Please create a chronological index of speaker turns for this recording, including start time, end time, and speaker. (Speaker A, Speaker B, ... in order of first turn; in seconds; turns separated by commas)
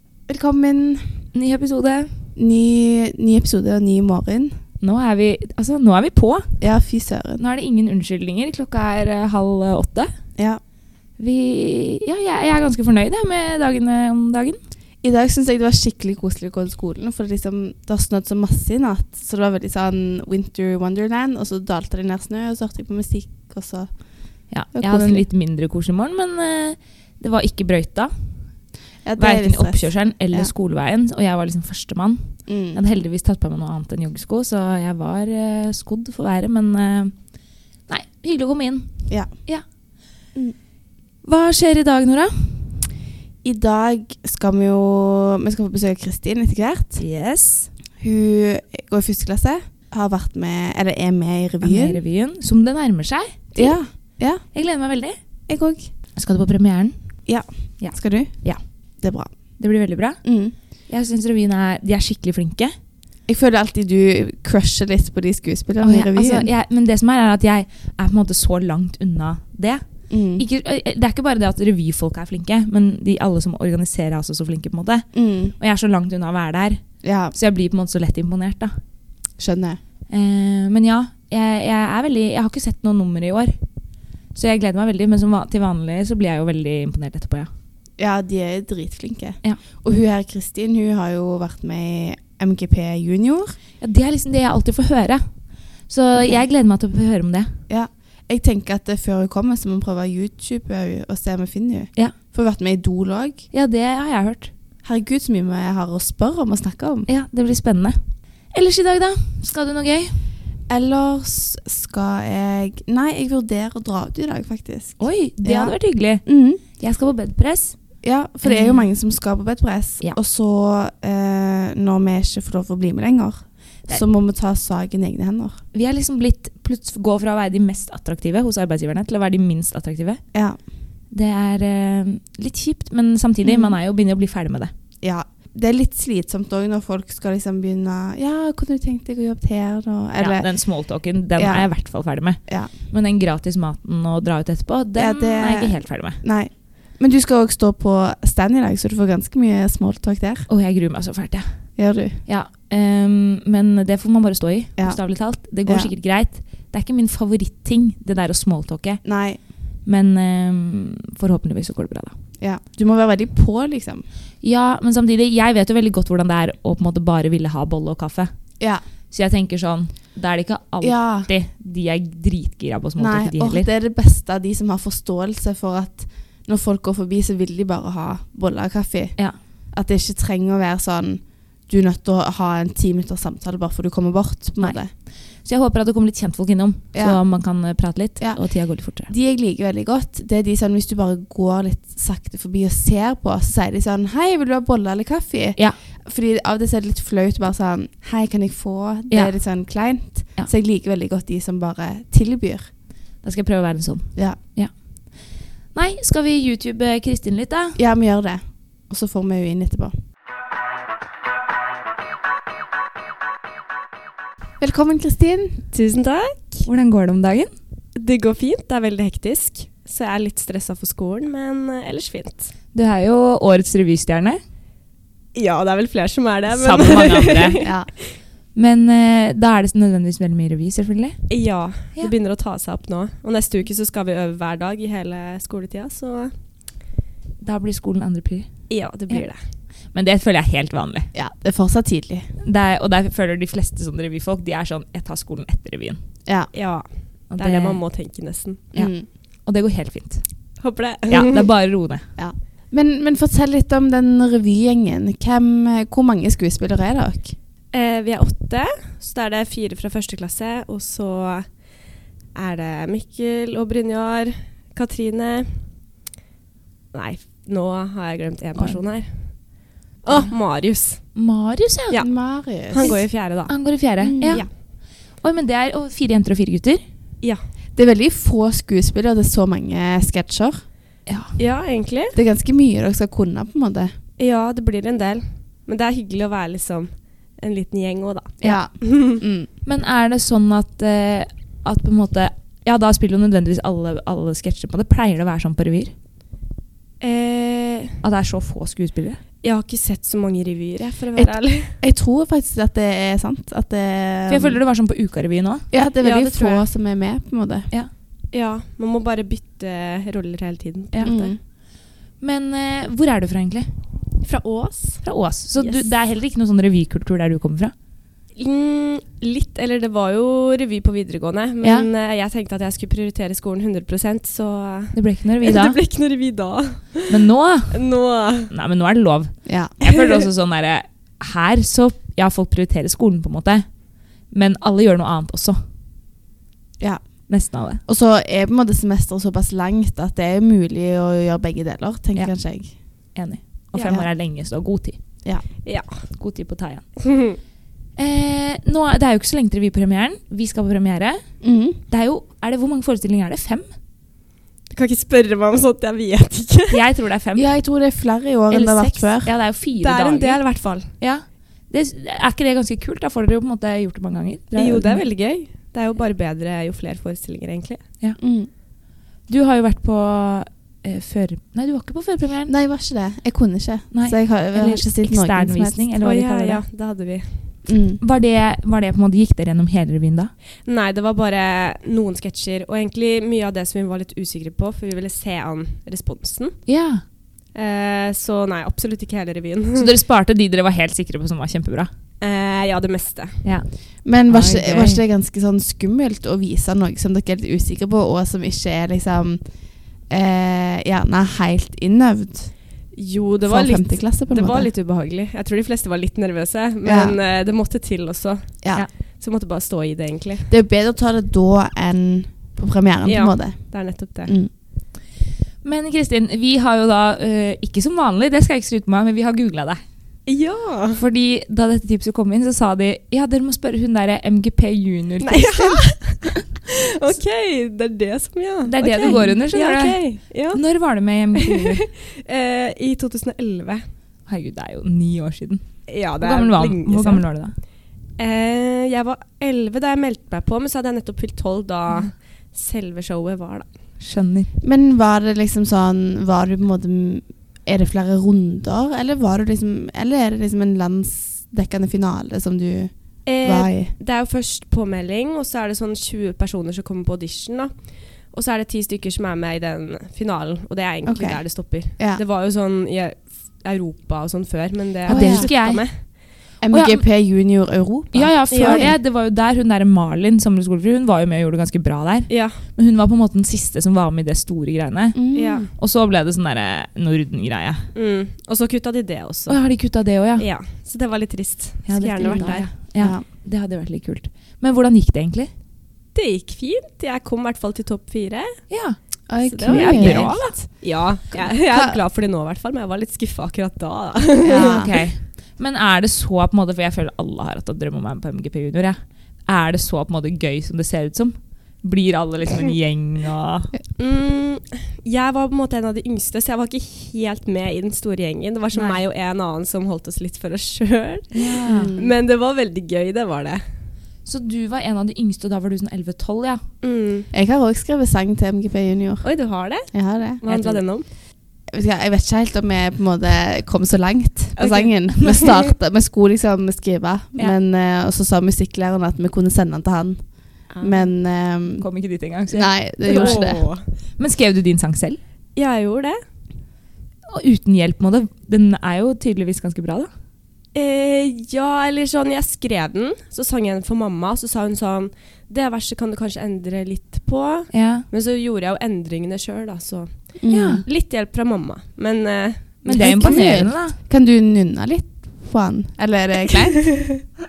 Speaker A: 0.3-1.2, Speaker B: 1.3-2.1, Speaker A: 2.4-4.5, Speaker B: 4.8-6.5, Speaker A: 6.6-7.4, Speaker B: 7.4-10.1, Speaker B: 11.2-14.6, Speaker A: 15.0-23.9, Speaker B: 24.5-28.4, Speaker A: 24.7-25.2, Speaker A: 29.0-30.5, Speaker B: 29.2-37.1, Speaker A: 32.5-32.8, Speaker B: 37.9-39.6, Speaker B: 41.2-42.8, Speaker A: 43.4-47.0, Speaker B: 47.0-47.7, Speaker A: 48.0-52.0, Speaker B: 51.6-53.8, Speaker A: 53.5-54.4, Speaker B: 54.5-55.1, Speaker A: 55.5-55.9, Speaker B: 56.1-57.0, Speaker A: 57.3-58.4, Speaker B: 57.8-58.6, Speaker A: 59.0-59.3, Speaker B: 59.6-60.2, Speaker A: 60.2-60.5, Speaker B: 60.9-62.7, Speaker A: 63.3-66.5, Speaker B: 65.8-69.8, Speaker A: 70.1-70.4, Speaker B: 70.3-78.7, Speaker A: 75.1-75.5, Speaker A: 77.0-77.3, Speaker A: 79.4-79.8, Speaker B: 80.1-83.6, Speaker B: 84.3-87.5, Speaker A: 88.0-93.5, Speaker B: 93.8-95.3, Speaker B: 95.8-97.5, Speaker A: 96.2-96.4, Speaker A: 97.7-103.4, Speaker B: 103.5-104.5, Speaker A: 104.8-107.1, Speaker B: 107.1-108.0, Speaker B: 108.5-110.2, Speaker A: 110.7-116.6, Speaker B: 115.0-116.2, Speaker B: 116.8-117.8, Speaker A: 118.0-125.6, Speaker B: 118.4-118.9, Speaker B: 125.7-130.2, Speaker B: 131.1-134.7, Speaker A: 133.4-133.8, Speaker A: 135.0-140.5, Speaker B: 140.2-146.2, Speaker A: 141.4-141.7, Speaker A: 142.4-142.7, Speaker A: 144.9-150.5, Speaker B: 150.5-151.6, Speaker A: 151.8-152.2, Speaker B: 152.2-159.0, Speaker A: 154.8-155.9, Speaker A: 159.0-159.4, Speaker B: 159.8-162.2, Speaker A: 162.4-164.1, Speaker B: 164.4-168.3, Speaker B: 169.1-173.7, Speaker A: 170.8-171.3, Speaker A: 173.0-184.9, Speaker B: 185.4-189.1, Speaker A: 186.9-187.2, Speaker A: 188.9-202.7, Speaker B: 203.2-207.8, Speaker A: 207.8-209.9, Speaker A: 214.6-215.6, Speaker C: 215.7-216.7, Speaker B: 216.7-217.5, Speaker C: 217.9-222.5, Speaker B: 222.7-224.4, Speaker C: 225.3-228.1, Speaker B: 226.5-227.6, Speaker A: 227.6-227.9, Speaker B: 228.5-231.3, Speaker C: 231.3-236.3, Speaker B: 237.4-238.5, Speaker C: 238.7-239.4, Speaker B: 239.9-241.1, Speaker A: 241.1-242.3, Speaker B: 242.4-246.0, Speaker C: 246.5-248.7, Speaker B: 247.3-247.8, Speaker A: 248.7-249.1, Speaker B: 249.4-250.2, Speaker C: 250.6-251.5, Speaker B: 251.1-252.1, Speaker A: 252.2-257.3, Speaker C: 257.7-261.6, Speaker C: 262.3-265.5, Speaker C: 266.9-269.4, Speaker C: 270.0-271.1, Speaker B: 271.1-272.0, Speaker A: 272.0-273.0, Speaker C: 272.7-273.7, Speaker B: 273.5-274.5, Speaker A: 274.0-274.4, Speaker B: 275.2-276.8, Speaker A: 277.7-280.6, Speaker B: 281.1-281.4, Speaker C: 281.4-282.1, Speaker A: 282.1-283.9, Speaker C: 284.2-289.2, Speaker A: 288.4-289.5, Speaker B: 289.6-295.9, Speaker C: 297.0-298.0, Speaker B: 298.0-299.2, Speaker C: 299.4-301.7, Speaker A: 301.1-304.6, Speaker B: 304.3-305.6, Speaker A: 305.7-307.7, Speaker C: 306.0-306.6, Speaker C: 308.3-311.3, Speaker A: 311.0-311.4, Speaker B: 312.2-313.7, Speaker C: 314.2-315.0, Speaker B: 315.0-317.7, Speaker C: 315.6-315.9, Speaker C: 318.4-328.5, Speaker B: 321.6-321.9, Speaker B: 324.9-325.8, Speaker B: 327.1-327.8, Speaker B: 328.5-333.7, Speaker A: 329.4-329.7, Speaker B: 334.3-335.6, Speaker A: 336.8-337.2, Speaker B: 337.3-337.8, Speaker A: 337.9-342.8, Speaker B: 343.1-345.0, Speaker C: 345.6-346.0, Speaker B: 346.1-346.9, Speaker C: 347.1-347.4, Speaker B: 348.0-351.3, Speaker A: 351.4-351.8, Speaker B: 351.9-353.7, Speaker C: 354.7-356.8, Speaker B: 356.7-357.5, Speaker A: 357.4-359.3, Speaker B: 358.5-360.4, Speaker C: 359.8-360.9, Speaker B: 361.0-365.0, Speaker C: 364.5-367.8, Speaker A: 368.2-368.5, Speaker B: 369.3-372.5, Speaker A: 372.5-375.8, Speaker B: 373.9-376.6, Speaker C: 376.0-377.4, Speaker A: 377.6-378.0, Speaker B: 378.0-380.3, Speaker C: 380.6-386.6, Speaker B: 386.7-387.0, Speaker C: 387.5-389.9, Speaker B: 389.8-391.9, Speaker C: 392.2-393.4, Speaker B: 393.4-393.7, Speaker A: 394.0-399.4, Speaker B: 394.3-395.0, Speaker A: 400.1-402.6, Speaker C: 402.9-410.5, Speaker A: 403.4-404.7, Speaker A: 406.8-407.2, Speaker A: 410.5-414.5, Speaker C: 413.1-414.3, Speaker B: 415.6-419.8, Speaker C: 420.2-421.0, Speaker B: 421.0-426.4, Speaker C: 425.2-430.6, Speaker B: 428.6-431.8, Speaker A: 429.0-429.4, Speaker C: 431.3-433.8, Speaker B: 434.3-437.6, Speaker C: 435.9-437.3, Speaker C: 438.2-443.7, Speaker B: 444.0-444.5, Speaker A: 444.6-453.9, Speaker C: 453.2-466.1, Speaker A: 461.1-461.4, Speaker A: 462.0-462.2, Speaker A: 465.1-465.5, Speaker B: 465.1-467.0, Speaker A: 466.6-468.9, Speaker B: 468.1-477.8, Speaker C: 468.5-468.9, Speaker C: 472.3-472.6, Speaker A: 475.1-475.7, Speaker C: 475.3-475.7, Speaker C: 477.9-479.6, Speaker B: 479.5-480.4, Speaker C: 480.4-482.7, Speaker B: 481.9-485.5, Speaker A: 482.2-483.2, Speaker C: 486.1-488.6, Speaker B: 488.7-489.0, Speaker A: 489.3-490.4, Speaker C: 489.5-494.8, Speaker B: 489.6-490.5, Speaker A: 491.4-492.0, Speaker A: 494.4-494.9, Speaker B: 494.5-503.7, Speaker C: 504.0-513.6, Speaker B: 508.7-509.0, Speaker B: 511.3-511.9, Speaker A: 511.6-512.1, Speaker B: 514.2-516.6, Speaker C: 516.8-517.3, Speaker A: 517.3-519.3, Speaker C: 519.2-521.1, Speaker A: 519.9-520.4, Speaker B: 520.5-520.8, Speaker A: 521.7-531.9, Speaker C: 524.6-525.7, Speaker C: 530.7-531.1, Speaker B: 531.8-533.5, Speaker A: 532.5-533.6, Speaker C: 533.0-533.8, Speaker B: 534.2-535.2, Speaker C: 535.5-536.2, Speaker B: 537.3-540.1, Speaker C: 540.7-553.5, Speaker B: 547.7-548.0, Speaker A: 550.4-550.8, Speaker B: 550.5-550.8, Speaker B: 552.9-554.0, Speaker A: 552.9-557.3